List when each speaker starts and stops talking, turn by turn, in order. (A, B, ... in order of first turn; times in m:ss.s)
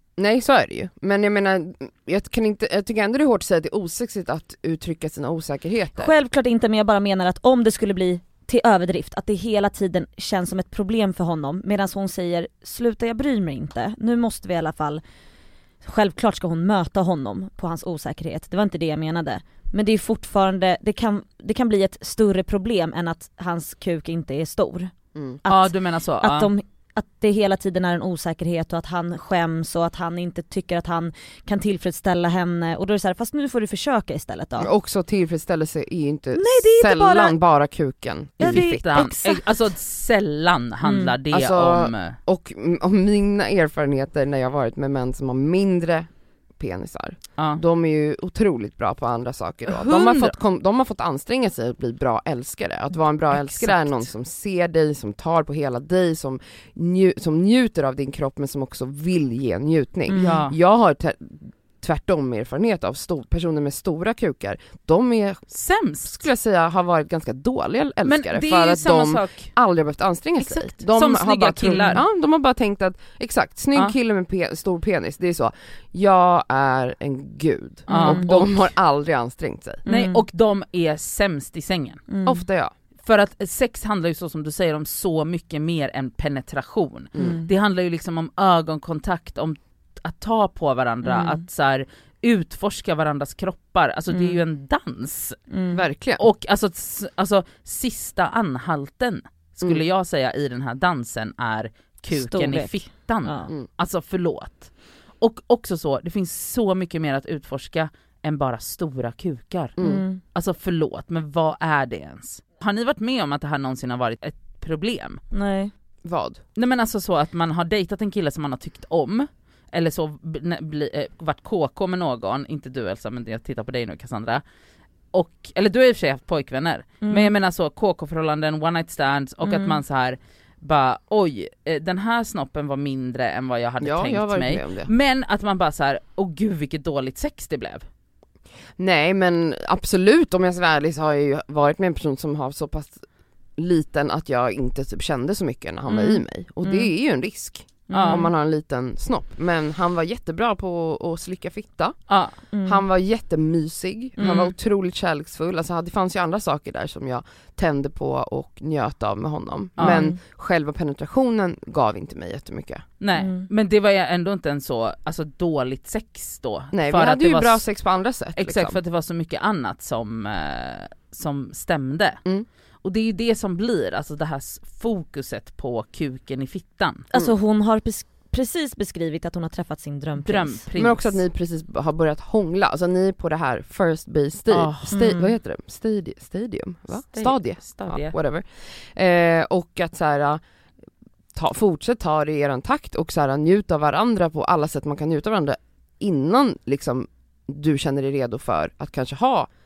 0:00.2-0:06.1 A
0:06.0-0:15.0 B
0:15.8-0:24.9 B
0:25.2-0:25.4 A
0:25.4-0:34.7 B
0:25.5-0:26.5 C
0:34.6-0:39.1 A
0:36.3-0:37.4 B
0:38.4-0:39.4 B
0:38.4-0:42.2 C
0:40.8-0:41.2 B
0:41.3-1:05.4 A
0:49.7-0:50.4 C
0:53.3-0:54.1 C
1:00.1-1:00.5 B
1:00.2-1:00.6 C
1:05.5-1:06.3 C
1:06.0-1:19.8 A
1:08.0-1:09.6 C
1:10.4-1:12.0 C
1:17.9-1:18.5 C
1:17.9-1:18.6 B
1:19.8-1:20.2 B
1:19.9-1:22.0 C
1:22.1-1:22.4 B
1:22.3-1:22.7 A
1:23.0-1:35.4 C
1:27.2-1:27.5 B
1:31.0-1:31.4 B
1:34.1-1:34.4 B
1:35.5-1:35.8 B
1:35.7-1:36.2 A
1:36.2-1:49.8 C
1:42.1-1:43.5 B
1:49.8-1:50.2 B
1:50.4-1:55.2 C
1:55.3-1:55.7 B
1:56.0-1:56.4 A
1:56.6-2:04.4 C
2:05.1-2:17.8 C
2:07.0-2:07.3 B
2:09.4-2:09.8 B
2:13.8-2:14.9 A
2:18.8-2:23.0 A
2:23.6-2:32.0 A
2:25.9-2:26.9 B
2:27.9-2:28.3 B
2:27.9-2:28.3 C
2:32.1-2:32.4 C
2:32.5-2:32.8 B
2:32.6-2:42.8 A
2:34.2-2:34.6 C
2:39.8-2:40.1 C
2:39.8-2:40.2 B
2:43.0-2:47.6 C
2:43.2-2:43.5 B
2:46.7-2:48.8 A
2:48.4-2:52.2 C
2:52.8-2:57.1 C
2:57.1-3:00.6 B
3:00.2-3:01.2 C
3:00.8-3:10.4 A
3:04.5-3:05.0 C
3:04.9-3:05.4 B
3:06.9-3:08.2 C
3:11.4-3:19.5 A